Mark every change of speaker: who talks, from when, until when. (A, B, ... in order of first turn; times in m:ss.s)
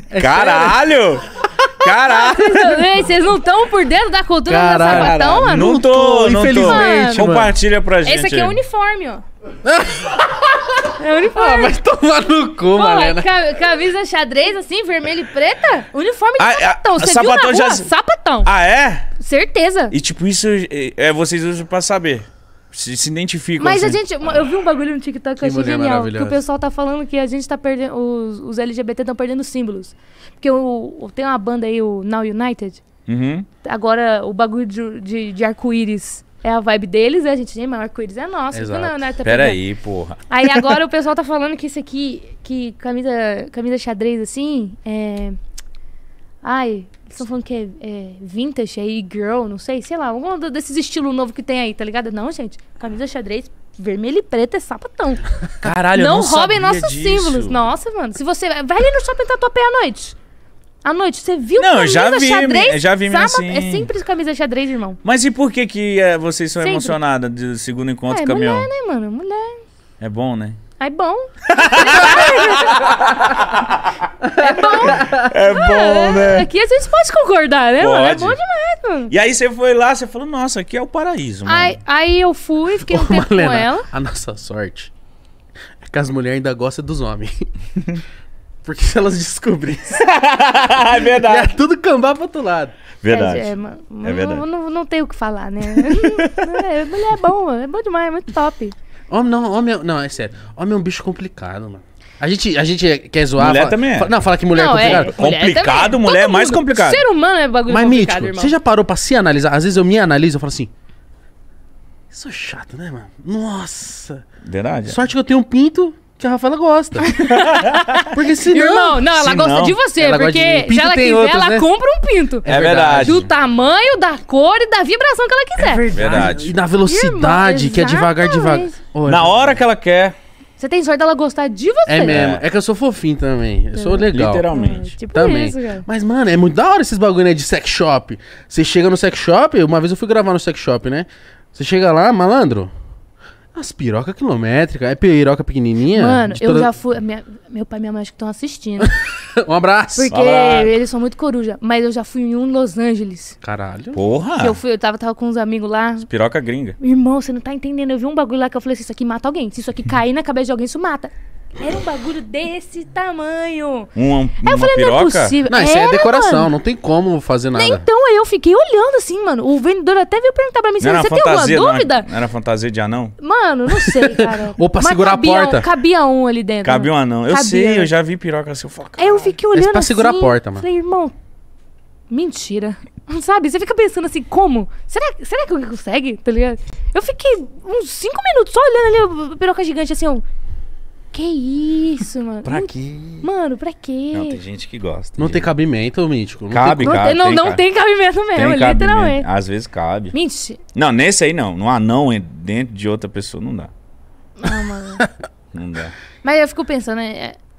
0:00.1-0:00.8 A
0:00.1-0:01.2 B
0:01.8-0:02.8 B
0:02.0-0:05.8 C
0:04.4-0:07.5 A
0:04.8-0:08.6 B
0:06.5-0:07.2 C
0:08.0-0:09.2 C
0:09.6-0:13.3 A
0:11.0-0:11.8 C
0:12.7-0:18.5 C
0:16.4-0:17.9 B
0:18.4-0:19.1 B
0:19.2-0:19.9 C
0:19.9-0:24.0 B
0:23.6-0:32.8 C
0:25.4-0:26.4 A
0:33.1-0:33.4 B
0:33.6-0:39.6 C
0:38.5-0:39.0 A
0:39.2-0:40.2 B
0:40.3-0:45.4 C
0:46.4-1:00.2 C
0:55.6-0:57.6 B
1:00.8-1:05.0 C
1:01.6-1:03.9 B
1:05.0-1:08.7 B
1:06.6-1:07.0 C
1:08.1-1:09.6 C
1:10.0-1:10.6 B
1:10.8-1:13.0 C
1:11.5-1:14.0 B
1:14.3-1:19.1 C
1:14.4-1:15.2 A
1:14.9-1:16.5 B
1:17.8-1:18.4 B
1:19.1-1:21.8 B
1:21.4-1:23.9 C
1:22.8-1:24.9 A
1:25.8-1:27.5 A
1:28.6-1:30.0 A
1:30.0-1:31.6 B
1:31.0-1:32.7 A
1:33.0-1:34.4 B
1:33.1-1:38.7 C
1:35.7-1:36.5 B
1:39.1-1:45.1 A
1:43.4-1:44.1 B
1:44.5-1:48.6 C
1:44.7-1:47.0 B
1:47.7-1:50.7 A
1:52.1-1:54.2 A
1:54.4-1:55.0 B
1:54.8-1:57.1 A
1:57.0-2:02.5 C
1:57.3-1:57.9 B
1:58.0-1:59.0 A
1:59.1-1:59.8 B
2:00.0-2:01.7 A
2:02.4-2:03.3 A
2:02.4-2:03.3 B
2:03.0-2:06.2 C
2:05.6-2:09.6 A
2:05.9-2:06.5 B
2:06.8-2:08.8 C
2:09.0-2:10.1 B
2:10.6-2:12.2 C
2:11.8-2:22.7 A
2:12.0-2:12.4 B
2:13.7-2:15.8 C
2:14.1-2:14.9 B
2:23.5-2:26.7 A
2:25.9-2:28.9 C
2:28.8-2:30.1 A
2:29.9-2:33.4 C
2:30.1-2:30.8 B
2:33.4-2:34.0 A
2:33.9-2:34.6 B
2:34.4-2:36.1 C
2:36.0-2:36.8 B
2:36.8-2:43.9 C
2:43.9-2:45.4 B
2:44.4-2:46.5 C
2:45.4-2:47.8 A
2:47.5-2:52.1 C
2:50.8-2:53.1 B
2:53.2-2:57.9 C
2:53.8-2:55.7 A
2:56.6-2:59.3 B
2:59.0-3:01.1 C
2:59.5-3:00.6 A
3:02.1-3:10.2 C
3:11.1-3:14.4 C
3:12.4-3:13.3 B
3:14.1-3:15.5 B
3:15.2-3:16.8 A
3:16.5-3:17.6 B
3:16.7-3:19.3 C
3:18.3-3:20.1 B
3:20.1-3:20.6 C
3:20.7-3:23.7 B
3:24.4-3:25.0 C
3:25.5-3:25.9 B
3:26.2-3:27.4 C